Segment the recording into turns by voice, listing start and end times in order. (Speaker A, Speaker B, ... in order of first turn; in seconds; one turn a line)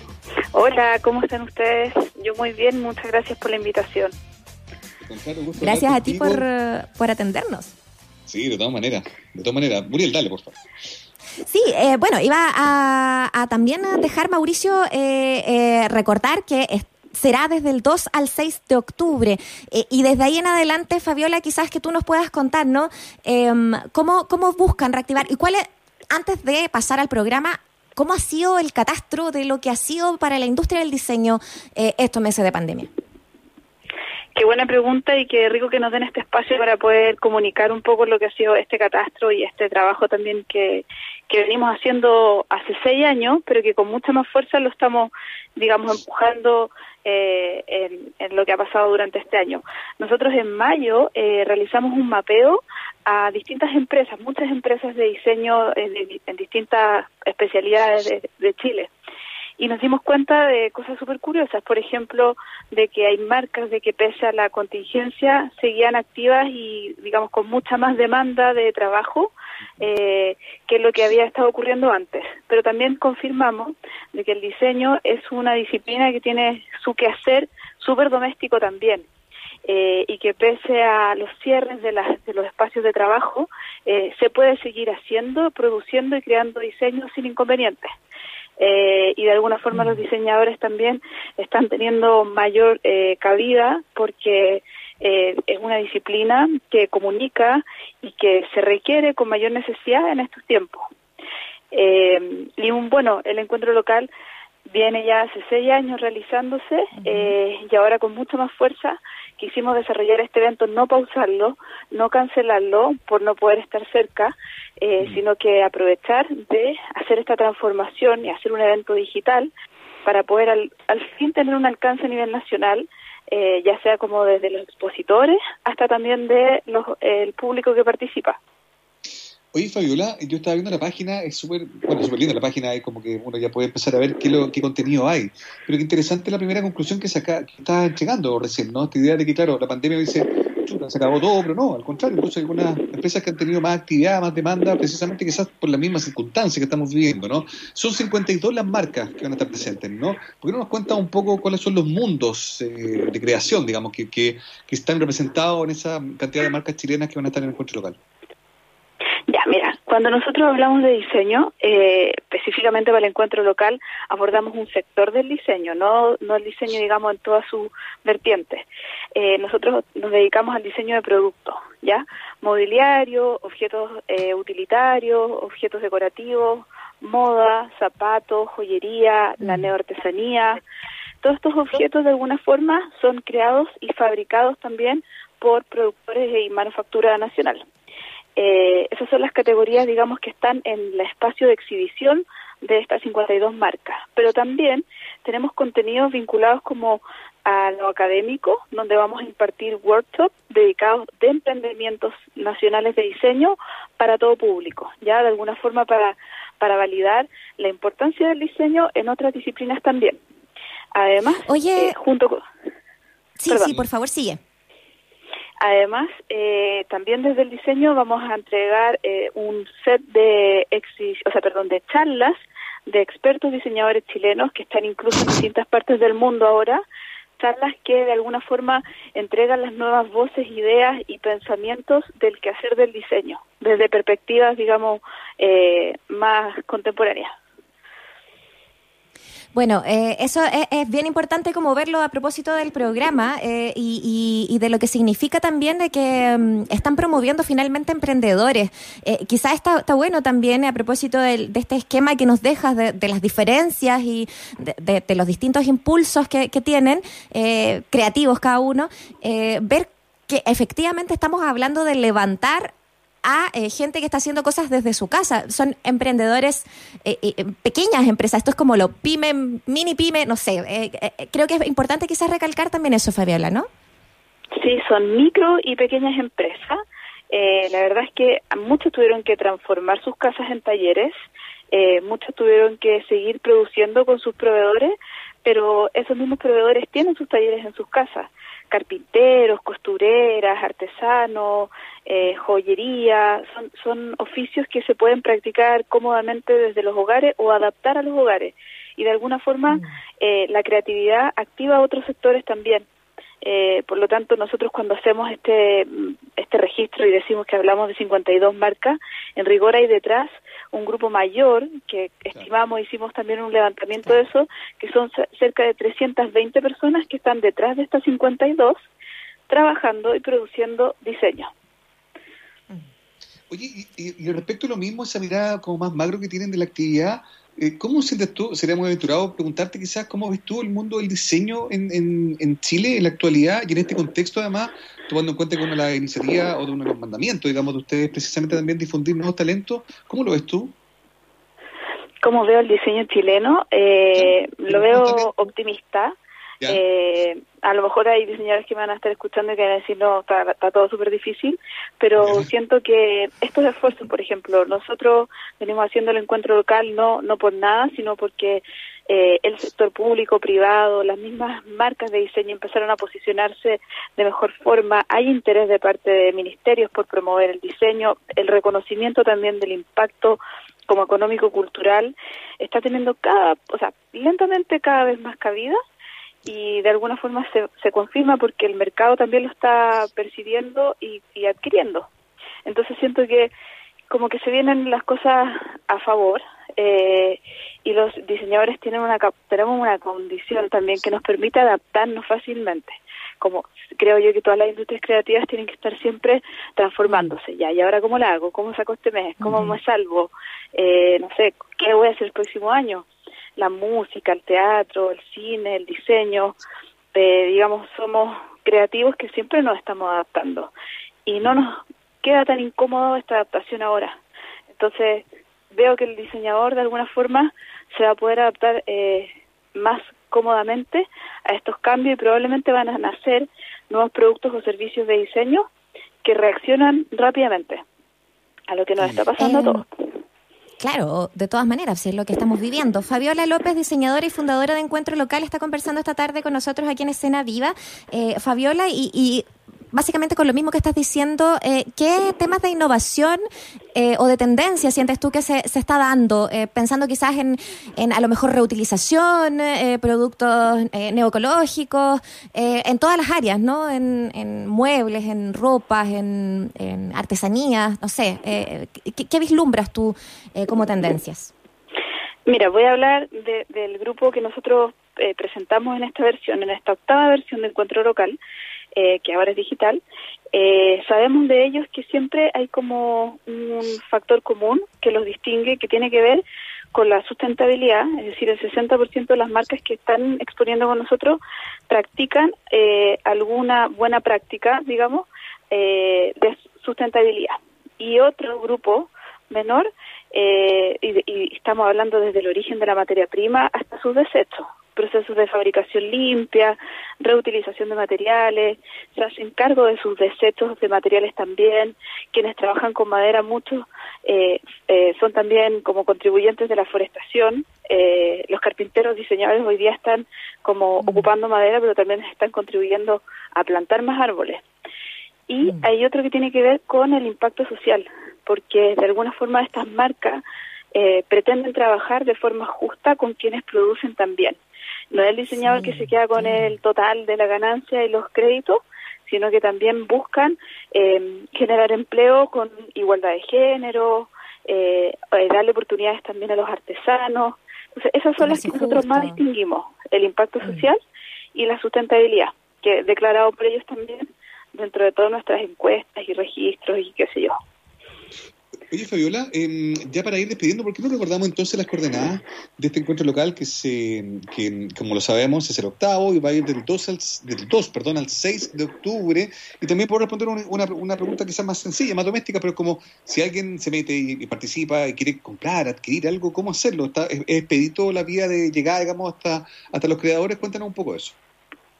Speaker A: 0.5-4.2
Speaker B: 5.0-6.5
Speaker C: 5.6-7.7
Speaker B: 8.3-10.6
Speaker C: 11.5-32.9
Speaker A: 34.4-58.9
Speaker A: 59.6-79.1
Speaker A: 79.7-87.9
Speaker A: 88.6-100.9
Speaker C: 89.7-90.0
Speaker A: 101.7-104.1
Speaker A: 104.7-119.5
Speaker C: 107.0-107.3
Speaker A: 120.0-128.4
Speaker B: 129.5-158.0
Speaker A: 159.3-180.6
Speaker C: 179.4-179.7
Speaker A: 181.2-187.7
Speaker A: 188.4-210.2
Speaker A: 210.9-212.4
Speaker C: 211.5-211.9
Speaker C: 213.4-214.4
Speaker A: 213.5-213.8
Speaker A: 215.6-222.3
Speaker A: 222.9-226.8
Speaker A: 227.4-237.3
Speaker C: 239.5-262.7
Speaker C: 263.2-273.7
Speaker A: 274.6-276.8
Speaker A: 277.3-281.1
Speaker A: 281.7-302.9
Speaker A: 303.4-318.9
Speaker A: 319.5-321.5
Speaker B: 323.5-340.8
Speaker A: 342.2-346.2
Speaker B: 344.1-345.3
Speaker A: 346.7-375.8
Speaker B: 352.2-352.5
Speaker A: 376.4-382.1
Speaker A: 382.7-383.5
Speaker A: 384.1-406.6
Speaker C: 397.1-397.4
Speaker C: 399.4-399.8
Speaker A: 407.1-410.7
Speaker A: 411.3-414.2
Speaker A: 414.7-425.7
Speaker A: 426.2-427.8
Speaker A: 428.7-429.9
Speaker C: 429.4-429.8
Speaker C: 430.8-443.4
Speaker C: 443.9-461.5
Speaker A: 462.5-468.4
Speaker A: 468.9-470.0
Speaker A: 470.5-514.6
Speaker C: 511.0-511.3
Speaker A: 515.5-524.6
Speaker A: 525.1-541.0
Speaker C: 525.6-526.7
Speaker C: 538.4-539.4
Speaker C: 540.6-540.9
Speaker A: 541.5-547.6
Speaker B: 548.9-571.4